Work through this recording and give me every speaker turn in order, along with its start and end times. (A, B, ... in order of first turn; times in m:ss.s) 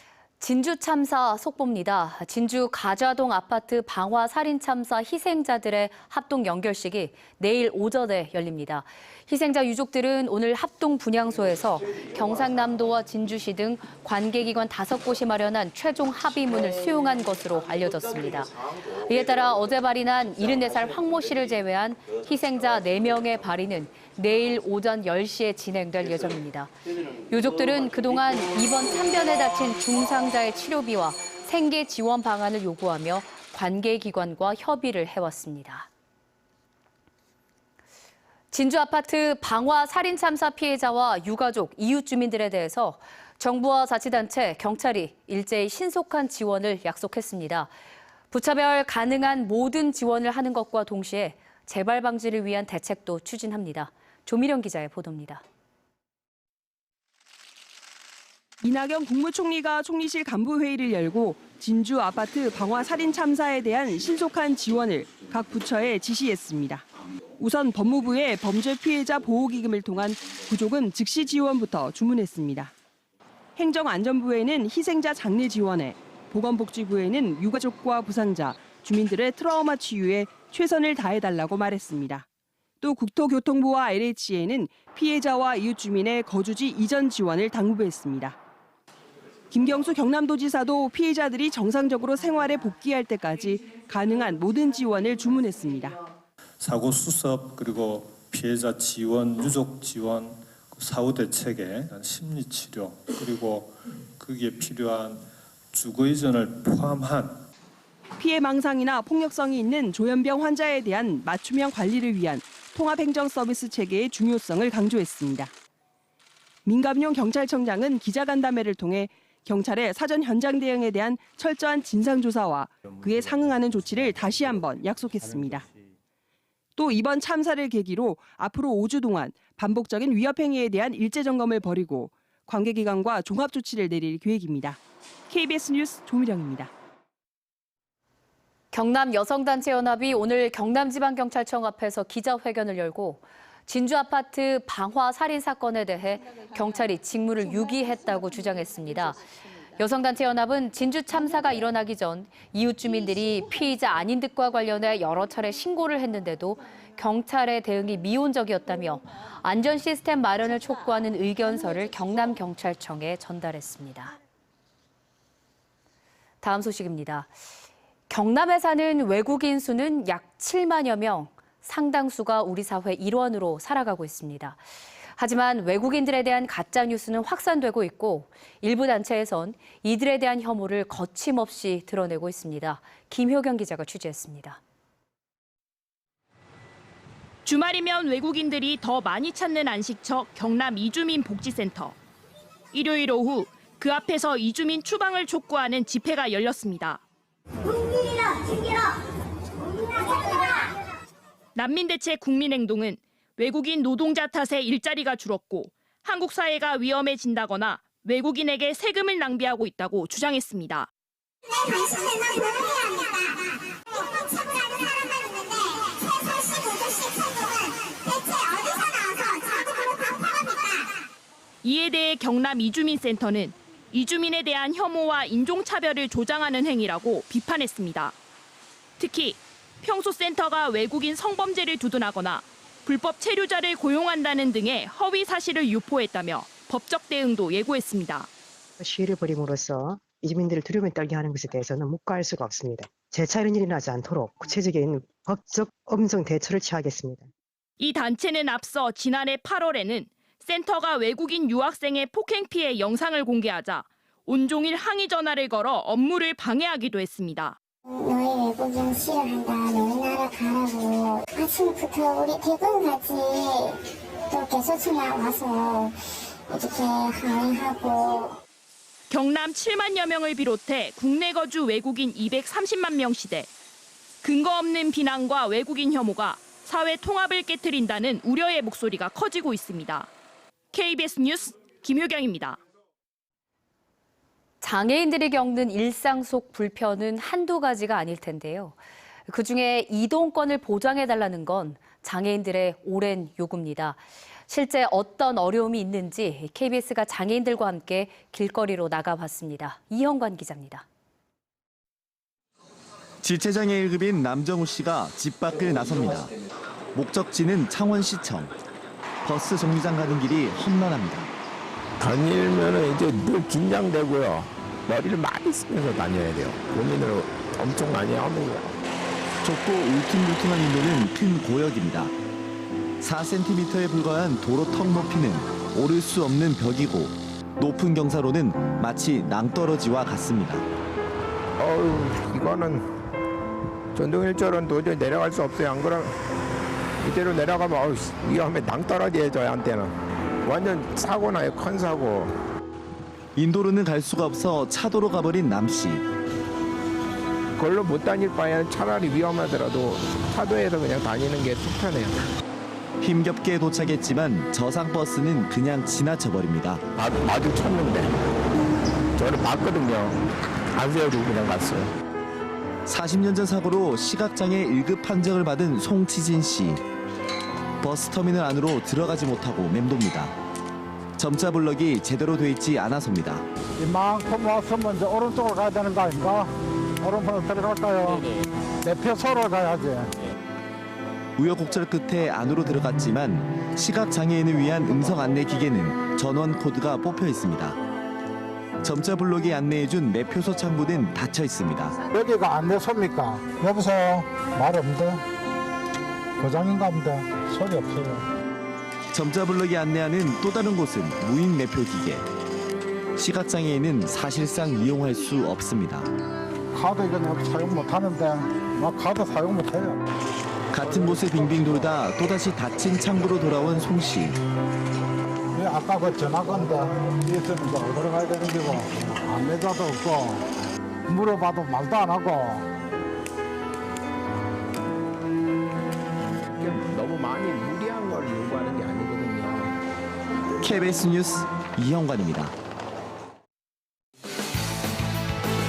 0:00.4-0:26.7 A
0:27.3-0:35.9 A
0:38.5-0:47.7 A
0:48.3-0:55.4 A
0:58.6-1:06.8 B
1:07.4-1:12.7 B
1:13.6-1:22.2 B
1:22.8-1:28.3 B
1:29.5-1:36.0 B
1:36.6-1:47.4 C
1:48.2-1:55.5 B
1:56.6-2:05.7 B
2:06.8-2:14.8 B
2:15.3-2:16.7 B
2:18.7-2:29.2 A
2:29.8-2:44.1 A
2:46.4-2:47.3 A
2:48.1-2:54.6 A
2:55.2-3:04.6 A
3:07.4-3:12.0 D
3:12.7-3:17.0 D
3:20.1-3:20.4 D
3:21.6-3:30.9 D
3:31.6-3:33.5 E
3:34.4-3:39.7 E
3:41.6-3:48.1 D
3:49.0-3:58.3 D
3:58.8-4:07.3 F
4:07.8-4:17.6 D
4:17.8-4:28.4 E
4:29.1-4:33.5 D
4:34.2-4:40.1 D
4:40.7-4:42.6 D
4:44.6-4:48.8 A
4:49.3-5:00.8 A
5:03.2-5:06.3 G
5:06.9-5:08.5 G
5:09.2-5:11.3 G
5:12.0-5:18.7 H
5:19.4-5:22.1 G
5:23.0-5:30.6 G
5:31.6-5:32.8 H
5:33.9-5:36.1 H
5:37.0-5:39.9 H
5:40.4-5:42.3 H
5:43.4-5:46.0 G
5:47.6-5:52.2 H
5:53.0-5:56.8 G
5:57.0-5:58.1 H
5:59.2-6:01.9 H
6:02.8-6:06.8 G
6:07.8-6:10.3 G
6:11.2-6:13.4 G
6:13.8-6:16.5 I
6:17.0-6:18.3 I
6:18.8-6:20.1 I
6:21.4-6:27.8 G
6:28.8-6:32.0 G
6:32.1-6:35.2 I
6:36.4-6:38.2 I
6:39.1-6:42.2 G
6:43.2-6:46.1 G
6:46.7-6:50.0 I
6:50.7-6:54.4 G
6:55.5-7:00.4 I
7:01.1-7:02.7 I
7:06.6-7:09.8 H
7:10.6-7:12.5 G